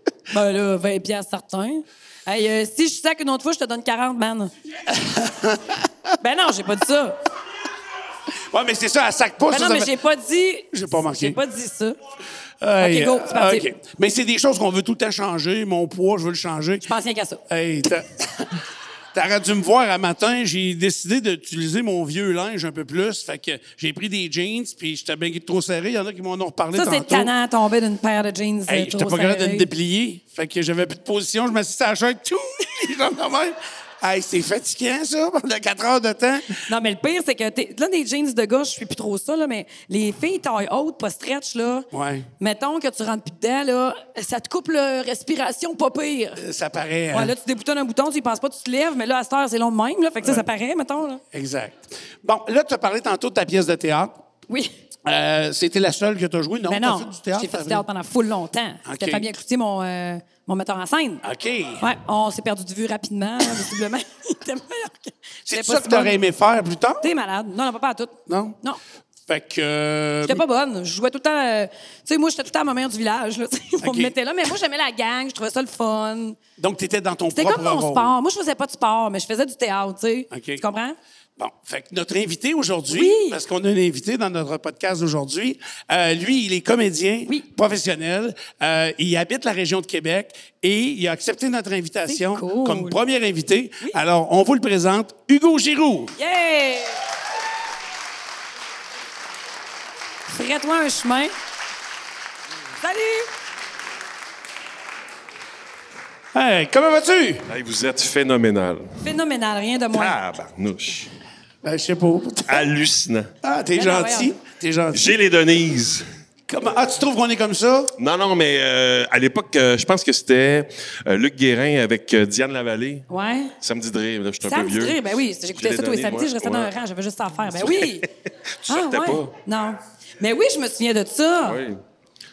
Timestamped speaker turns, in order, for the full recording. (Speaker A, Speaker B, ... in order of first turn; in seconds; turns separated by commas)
Speaker A: 0.3-4.5, Speaker B: 4.9-5.9, Speaker A: 6.2-7.2, Speaker B: 8.3-9.9, Speaker A: 9.5-12.0, Speaker B: 10.7-11.4, Speaker B: 12.6-16.9, Speaker A: 12.8-13.7, Speaker A: 16.8-17.4, Speaker B: 17.5-18.6, Speaker B: 19.1-27.3, Speaker A: 26.7-29.7, Speaker B: 28.7-36.7, Speaker A: 36.7-41.9, Speaker B: 41.9-42.3, Speaker A: 42.4-46.4, Speaker B: 46.4-47.3, Speaker A: 47.1-51.2, Speaker B: 51.3-54.2, Speaker B: 55.0-57.8, Speaker A: 56.7-61.2, Speaker B: 58.8-59.3, Speaker B: 61.2-61.8, Speaker A: 61.8-66.2, Speaker B: 65.5-67.0, Speaker A: 67.0-68.8, Speaker B: 68.3-68.6, Speaker B: 69.3-70.4, Speaker A: 70.2-76.4, Speaker B: 73.8-74.1, Speaker B: 76.6-78.1, Speaker A: 77.3-81.0, Speaker B: 80.3-80.6, Speaker B: 81.4-96.1, Speaker A: 82.9-83.4, Speaker A: 92.1-93.0, Speaker A: 96.2-97.0, Speaker A: 100.3-101.3, Speaker A: 102.8-103.3, Speaker B: 106.3-107.5, Speaker C: 107.5-109.0, Speaker A: 109.0-110.2, Speaker C: 109.9-111.1, Speaker B: 111.6-112.7, Speaker C: 112.5-113.3, Speaker B: 113.4-115.2, Speaker A: 113.7-114.3, Speaker C: 114.9-116.0, Speaker B: 116.5-117.9, Speaker C: 118.0-123.1, Speaker A: 123.1-123.5, Speaker C: 123.6-126.7, Speaker A: 124.4-128.1, Speaker C: 127.5-129.3, Speaker A: 128.7-131.6, Speaker C: 131.4-131.8